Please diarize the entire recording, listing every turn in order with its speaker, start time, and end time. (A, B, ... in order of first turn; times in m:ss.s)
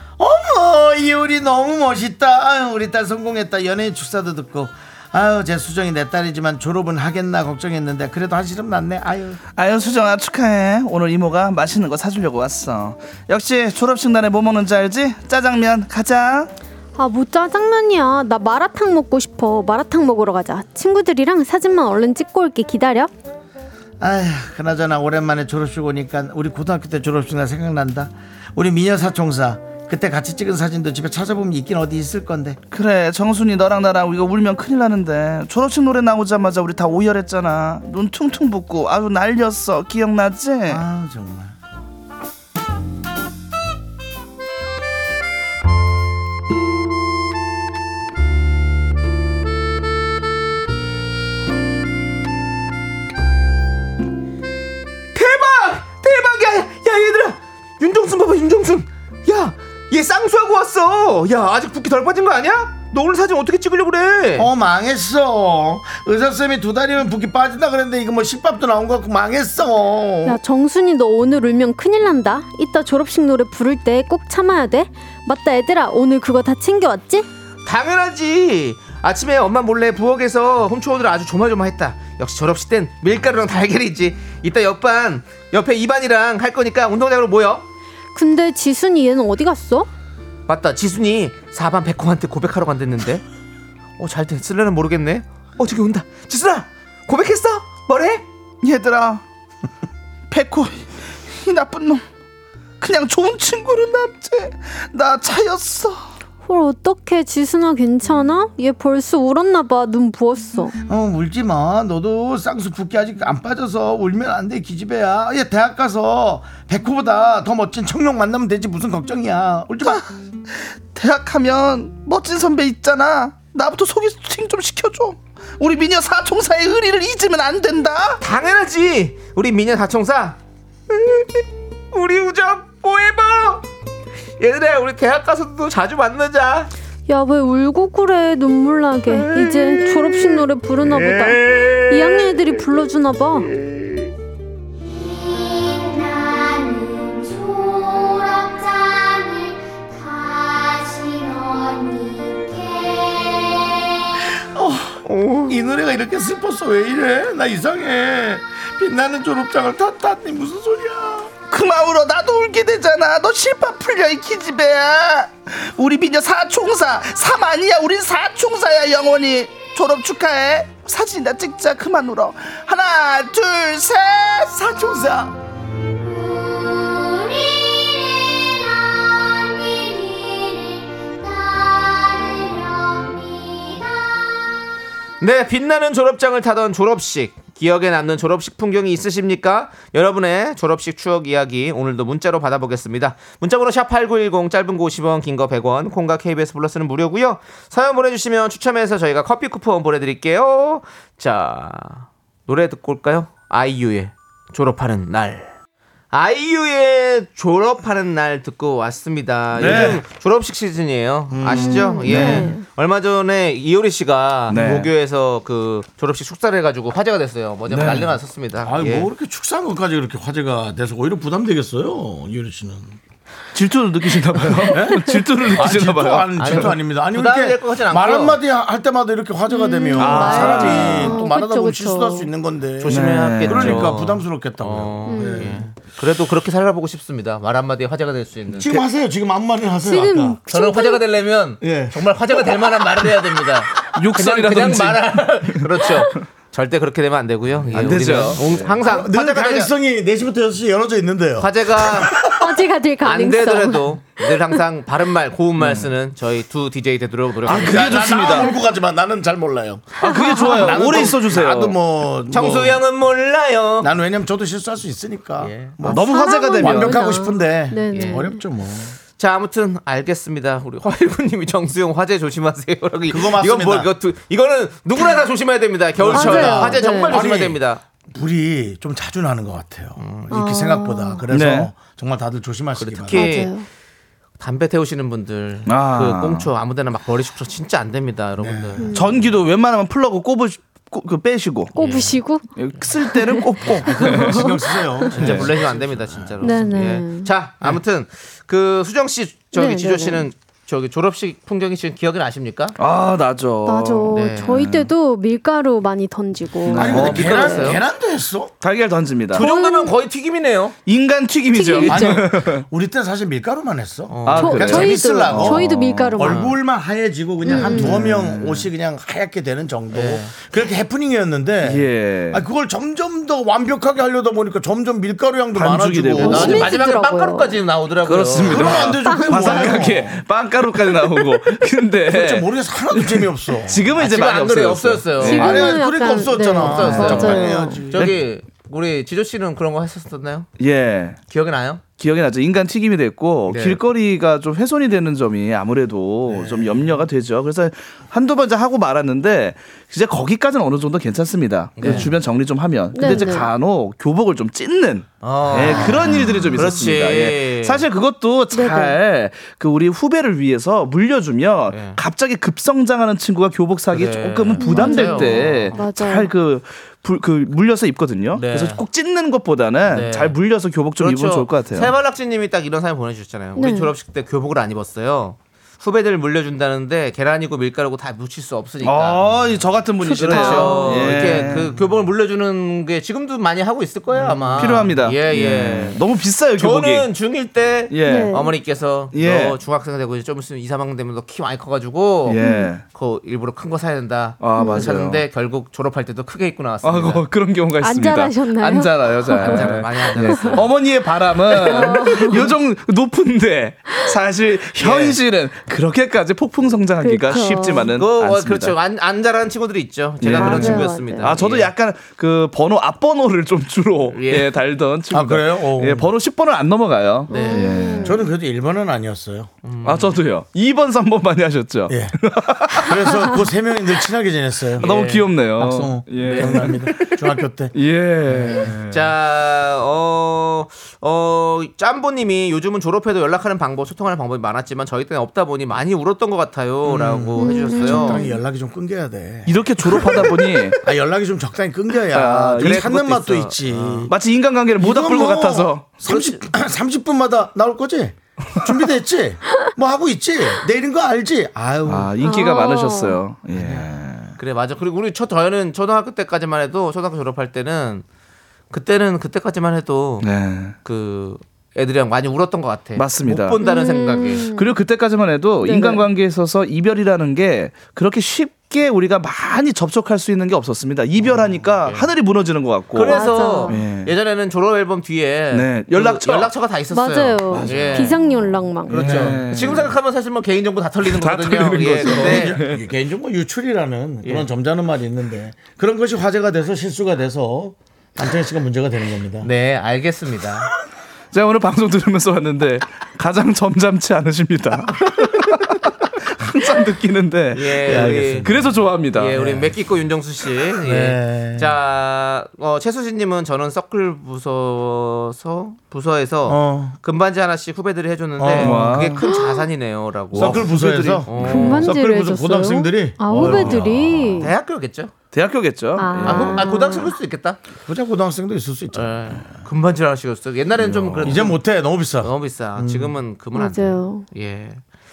0:00.2-0:09.4 A
0:09.6-0:16.5 B
0:17.0-0:23.1 C
0:24.0-0:32.6 A
0:32.7-0:40.8 B
0:40.7-0:41.5 A
0:55.1-1:04.5 D
1:04.4-1:10.4 A
1:10.2-1:17.3 C
1:17.6-1:27.6 D
1:28.2-1:29.9 C
1:30.5-1:33.2 D
1:34.0-1:38.2 D
1:38.6-1:39.2 B
1:40.3-1:42.0 B
1:42.8-1:46.0 B
1:46.5-1:50.8 C
1:50.9-2:00.1 A
2:00.9-2:08.2 B
2:08.2-2:10.4 D
2:10.9-2:13.6 D
2:14.4-2:16.7 D
2:17.1-2:23.5 C
2:21.5-2:21.8 D
2:24.8-2:34.3 E
2:34.4-2:35.0 A
2:35.0-2:35.6 D
2:35.5-2:41.3 A
2:41.5-2:55.3 B
2:56.1-3:04.3 E
3:05.2-3:25.5 D
3:26.1-3:39.1 D
3:29.6-3:30.0 B
3:29.6-3:30.0 A
3:31.3-3:32.0 A
3:31.5-3:32.6 C
3:32.1-3:32.5 B
3:34.5-3:34.9 B
3:37.7-3:38.1 B
3:38.6-3:43.0 A
3:43.5-3:46.7 B
3:44.5-3:55.7 A
3:46.4-3:48.4 D
3:49.5-3:52.3 C
3:49.9-3:51.2 B
3:52.8-3:58.8 D
3:52.9-3:54.0 B
3:55.1-3:55.6 C
3:58.5-4:00.4 A
3:59.8-4:01.0 C
4:00.5-4:09.7 D
4:01.6-4:02.7 A
4:03.9-4:06.2 B
4:07.6-4:08.8 B
4:08.8-4:12.4 A
4:11.4-4:12.2 D
4:12.1-4:14.6 C
4:13.0-4:18.1 D
4:17.5-4:18.5 B
4:17.5-4:22.8 A
4:20.0-4:21.8 B
4:20.0-4:20.8 C
4:22.3-4:23.9 D
4:23.8-4:29.0 A
4:25.4-4:25.9 D
4:25.8-4:27.1 B
4:25.9-4:28.4 C
4:27.9-4:28.2 D
4:29.2-4:37.8 D
4:33.1-4:33.9 A
4:36.0-4:43.3 A
4:36.1-4:37.2 C
4:40.0-4:40.3 D
4:40.3-4:41.2 C
4:41.3-4:41.7 B
4:42.8-4:43.6 D
4:43.1-4:43.7 C
4:44.4-4:48.9 D
4:45.7-4:46.5 B
4:48.4-4:49.3 A
4:48.8-4:49.2 C
4:48.9-4:51.8 B
4:51.8-4:52.5 C
4:51.8-4:52.2 D
4:52.6-4:54.6 B
4:53.0-4:55.1 C
4:53.9-4:56.8 A
4:55.1-5:02.8 D
4:55.2-4:55.5 B
4:56.4-4:57.3 C
4:59.5-5:00.2 C
5:02.8-5:04.9 B
5:03.7-5:07.8 C
5:04.1-5:04.6 D
5:06.6-5:07.5 B
5:06.7-5:08.5 A
5:06.8-5:07.8 D
5:08.6-5:09.5 B
5:09.3-5:10.8 D
5:09.4-5:10.0 C
5:10.9-5:12.6 B
5:11.5-5:12.2 C
5:11.8-5:26.7 A
5:14.1-5:14.7 D
5:14.3-5:16.4 B
5:14.4-5:16.5 C
5:16.3-5:16.5 D
5:17.4-5:18.0 C
5:17.7-5:18.1 D
5:17.7-5:18.6 B
5:19.9-5:20.4 D
5:21.6-5:22.4 B
5:25.6-5:26.7 B
5:26.2-5:27.6 C
5:26.2-5:28.9 D
5:28.0-5:35.8 B
5:28.4-5:30.2 A
5:29.0-5:29.9 C
5:32.1-5:33.9 A
5:34.0-5:35.6 D
5:35.2-5:38.1 A
5:35.2-5:37.8 C
5:36.6-5:40.5 D
5:36.7-5:37.4 B
5:37.9-5:38.2 B
5:40.6-5:41.2 B
5:41.3-5:41.8 D
5:42.0-6:11.9 B
5:43.5-5:43.8 D
5:51.8-5:52.1 D
5:53.0-5:53.5 C
5:55.2-5:57.8 D
5:56.0-5:56.6 C
5:58.5-5:59.0 C
6:01.7-6:02.0 D
6:03.9-6:05.8 D
6:04.6-6:06.3 C
6:08.3-6:08.8 D
6:09.9-6:10.4 D
6:11.0-6:19.3 D
6:13.6-6:13.9 C
6:18.8-6:21.8 B
6:20.0-6:21.3 C
6:20.1-6:26.0 D
6:24.2-6:27.1 B
6:26.6-6:37.2 D
6:27.9-6:28.4 B
6:28.0-6:28.6 C
6:29.1-6:29.6 B
6:32.3-6:32.8 B
6:32.4-6:32.7 C
6:34.4-6:35.2 B
6:34.6-6:35.0 C
6:36.8-6:48.8 B
6:37.8-6:40.6 C
6:39.4-6:40.7 D
6:41.5-6:42.6 C
6:44.8-6:45.2 D
6:47.0-6:48.0 C
6:48.0-6:51.7 D
6:50.2-6:58.2 B
6:50.4-6:51.4 C
6:54.1-6:54.5 D
6:55.1-6:56.1 A
6:57.3-6:58.2 C
6:57.3-6:57.7 D
6:58.0-6:59.5 A
6:59.6-7:00.2 D
6:59.8-7:03.3 B
7:01.9-7:02.2 A
7:02.7-7:04.9 A
7:04.8-7:07.2 B
7:04.8-7:05.3 D
7:05.6-7:07.8 A
7:06.2-7:06.8 D
7:07.7-7:09.1 B
7:08.4-7:18.2 D
7:16.8-7:24.1 A
7:17.4-7:18.4 C
7:19.5-7:20.8 B
7:22.1-7:23.2 B
7:22.6-7:24.1 D
7:24.1-7:26.4 B
7:24.8-7:32.1 A
7:31.9-7:34.4 B
7:32.2-7:33.2 C
7:33.5-7:33.9 A
7:34.4-7:38.0 D
7:38.7-7:40.3 D
7:40.2-7:40.8 B
7:40.8-7:44.5 D
7:43.0-7:43.6 B
7:43.6-7:44.8 C
7:44.4-7:54.1 B
7:45.6-7:46.1 C
7:51.3-7:52.1 D
7:52.9-7:58.3 D
7:53.1-7:53.8 C
7:55.5-7:56.5 B
7:56.9-7:59.4 C
7:57.5-7:59.9 B
7:58.9-8:02.6 D
7:59.0-7:59.4 A
8:01.0-8:02.8 B
8:02.1-8:09.5 A
8:09.4-8:10.7 D
8:11.3-8:19.4 B
8:17.5-8:31.9 D
8:17.8-8:18.8 A
8:19.3-8:19.7 A
8:20.8-8:21.7 A
8:26.5-8:27.0 A
8:28.4-8:28.9 A
8:28.5-8:29.2 B
8:29.2-8:29.7 C
8:30.3-8:31.9 B
8:30.3-8:34.4 A
8:31.4-8:34.5 C
8:33.3-8:34.0 B
8:34.4-8:35.1 D
8:35.3-8:36.7 B
8:36.0-8:37.1 C
8:36.2-8:37.6 D
8:37.9-8:39.4 A
8:38.9-8:41.6 D
8:40.8-8:41.5 B
8:41.2-8:43.2 A
8:42.2-8:44.8 D
8:43.5-8:44.3 C